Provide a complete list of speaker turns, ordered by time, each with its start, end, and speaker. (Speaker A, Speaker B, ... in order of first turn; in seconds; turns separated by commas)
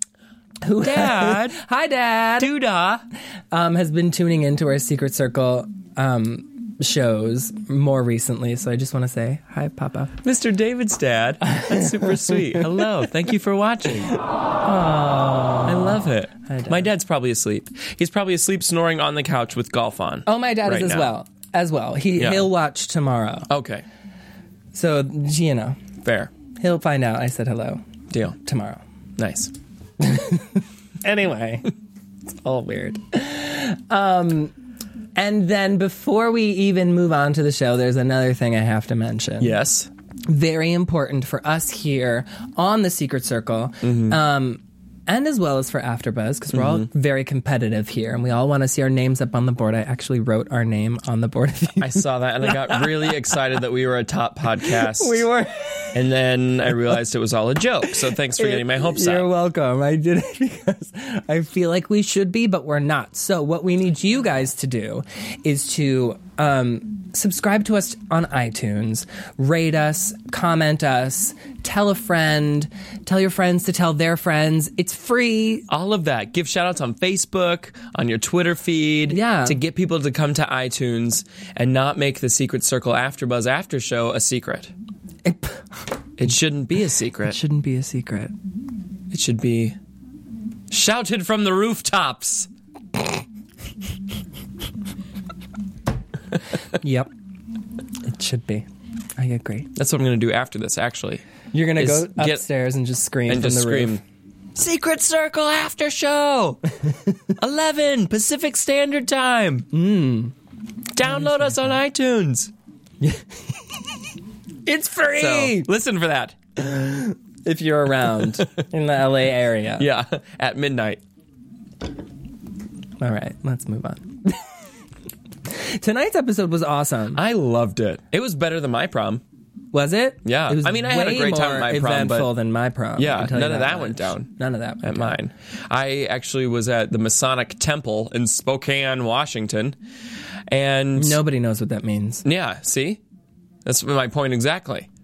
Speaker A: 0.6-2.5, Speaker B: 0.8-1.6, Speaker B: 2.4-3.0, Speaker A: 3.5-10.2, Speaker B: 10.2-14.1, Speaker A: 11.4-12.6, Speaker A: 14.6-15.9, Speaker B: 15.6-21.1, Speaker A: 16.5-16.9, Speaker A: 20.2-23.5, Speaker B: 22.1-22.5, Speaker B: 23.5-23.9, Speaker A: 24.7-25.8, Speaker B: 26.0-26.3, Speaker A: 26.6-27.8, Speaker B: 28.1-28.4, Speaker A: 28.4-28.8, Speaker B: 29.2-29.5, Speaker A: 30.0-31.7, Speaker A: 32.3-34.5, Speaker A: 35.1-39.5, Speaker B: 39.4-39.9, Speaker A: 40.2-53.1, Speaker B: 43.8-44.2, Speaker B: 46.5-46.9, Speaker B: 51.8-55.2, Speaker A: 54.6-56.0, Speaker B: 55.9-59.3, Speaker A: 58.4-75.7, Speaker B: 75.7-84.7, Speaker A: 79.1-79.6, Speaker A: 85.2-85.6, Speaker B: 86.2-87.4, Speaker A: 87.2-88.3, Speaker B: 89.1-89.8, Speaker B: 90.7-92.5, Speaker A: 96.7-97.1, Speaker A: 98.0-99.7, Speaker B: 99.7-101.2, Speaker A: 101.5-104.0, Speaker B: 101.8-102.4, Speaker B: 103.3-104.0, Speaker B: 104.5-106.6, Speaker B: 107.4-109.7, Speaker A: 109.7-110.3, Speaker B: 110.9-112.5, Speaker A: 111.0-111.7, Speaker A: 114.7-115.7, Speaker B: 115.1-116.4, Speaker A: 116.6-119.9, Speaker B: 119.8-121.0, Speaker A: 123.0-124.4, Speaker A: 125.5-127.2, Speaker B: 127.1-129.2, Speaker A: 129.7-135.1, Speaker B: 130.2-132.3, Speaker B: 132.9-134.3, Speaker B: 134.8-139.8, Speaker B: 140.5-141.2, Speaker A: 140.9-142.2, Speaker B: 142.2-143.0, Speaker B: 143.6-144.9